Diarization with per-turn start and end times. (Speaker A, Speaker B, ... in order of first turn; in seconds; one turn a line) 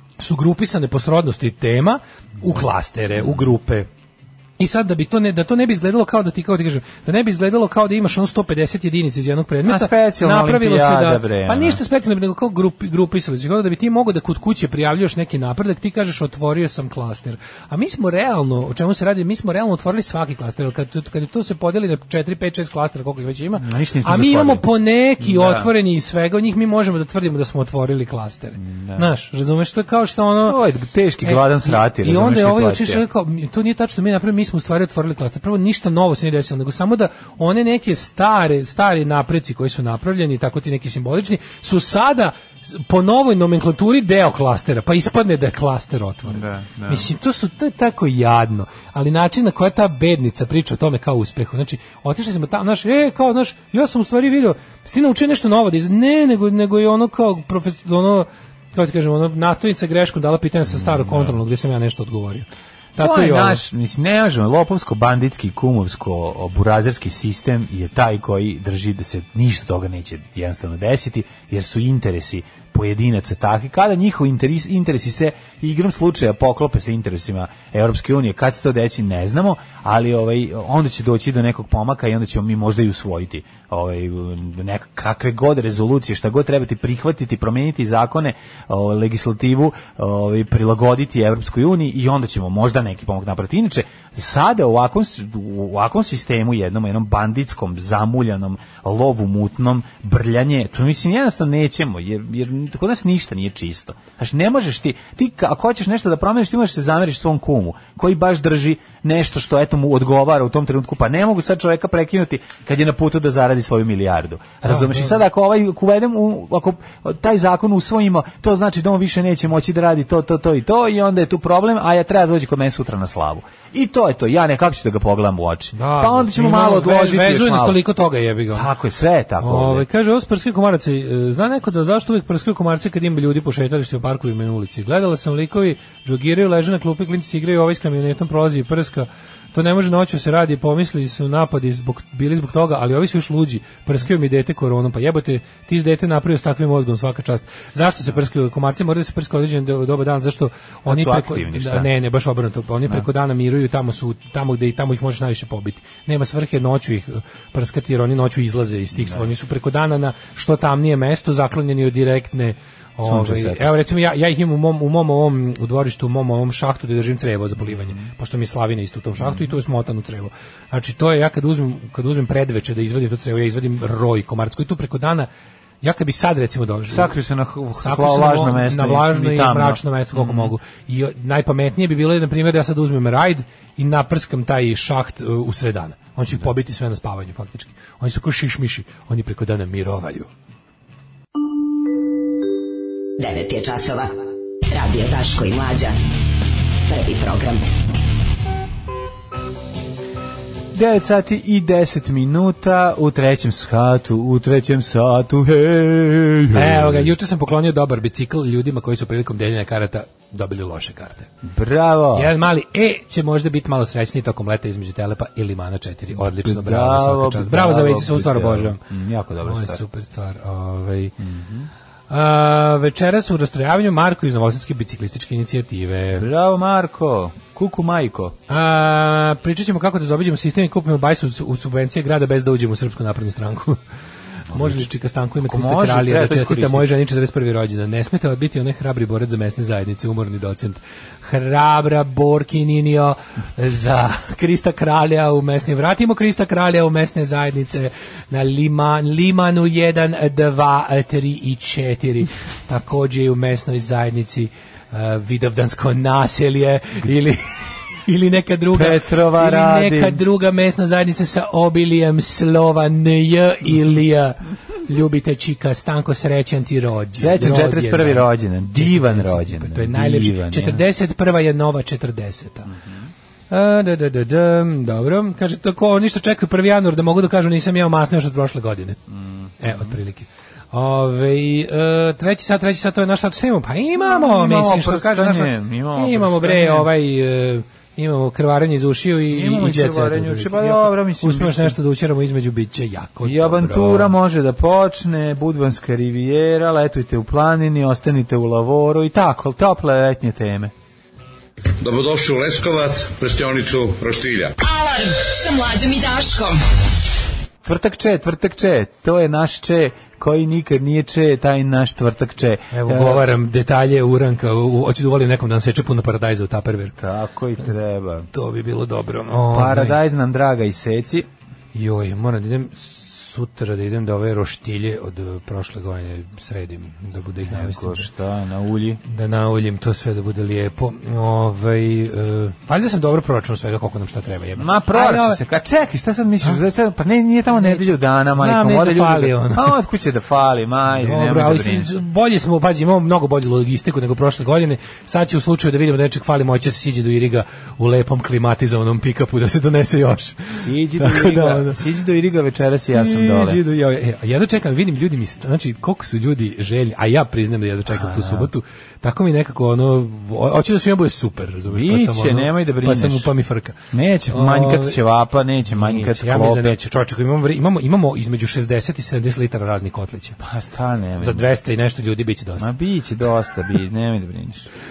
Speaker A: 0.2-3.9
Speaker A: 4.6-30.6
Speaker B: 9.7-11.8
Speaker B: 23.6-24.7
Speaker B: 25.2-25.7
Speaker B: 28.6-29.1
Speaker B: 30.4-33.0
Speaker A: 31.2-63.6
Speaker B: 46.3-47.1
Speaker B: 60.7-61.4
Speaker B: 63.0-127.8
Speaker A: 114.7-115.1
Speaker A: 125.8-128.7
Speaker B: 128.5-129.8
Speaker A: 129.4-175.3
Speaker B: 150.8-151.9
Speaker B: 158.9-159.3
Speaker B: 163.0-163.8
Speaker B: 167.7-168.0
Speaker A: 175.8-177.1
Speaker B: 176.9-180.5
Speaker A: 177.8-190.3
Speaker C: 193.2-194.1
Speaker C: 194.7-195.9
Speaker C: 196.9-197.6
Speaker B: 200.7-207.1
Speaker A: 206.5-211.3
Speaker B: 211.4-212.3
Speaker A: 212.1-218.8
Speaker B: 216.1-219.8
Speaker A: 219.4-221.1
Speaker B: 221.2-221.7
Speaker A: 222.1-226.3
Speaker B: 226.2-228.3
Speaker A: 228.5-233.8
Speaker A: 234.5-257.4
Speaker B: 234.5-234.9
Speaker B: 235.4-236.9
Speaker A: 258.0-272.7
Speaker B: 258.7-260.2
Speaker B: 267.1-270.8
Speaker B: 272.6-273.1
Speaker A: 273.5-279.0
Speaker B: 279.1-280.0
Speaker A: 279.6-294.1
Speaker B: 284.0-286.9
Speaker B: 289.3-291.7
Speaker B: 293.2-300.7
Speaker D: 301.8-304.6
Speaker E: 304.6-306.6
Speaker B: 307.6-313.2
Speaker A: 312.7-316.9
Speaker B: 317.0-318.3
Speaker A: 318.3-320.0
Speaker B: 319.5-321.3
Speaker A: 321.7-328.1
Speaker B: 327.4-329.0
Speaker A: 329.0-335.4
Speaker B: 334.6-341.9
Speaker A: 337.6-339.7
Speaker A: 341.0-351.8
Speaker B: 350.5-353.6
Speaker A: 352.9-363.8
Speaker B: 357.9-358.5
Speaker B: 361.7-363.3
Speaker B: 363.9-366.8
Speaker A: 364.3-365.0
Speaker A: 365.7-370.4
Speaker B: 370.4-371.5
Speaker A: 371.2-372.7
Speaker B: 372.6-374.7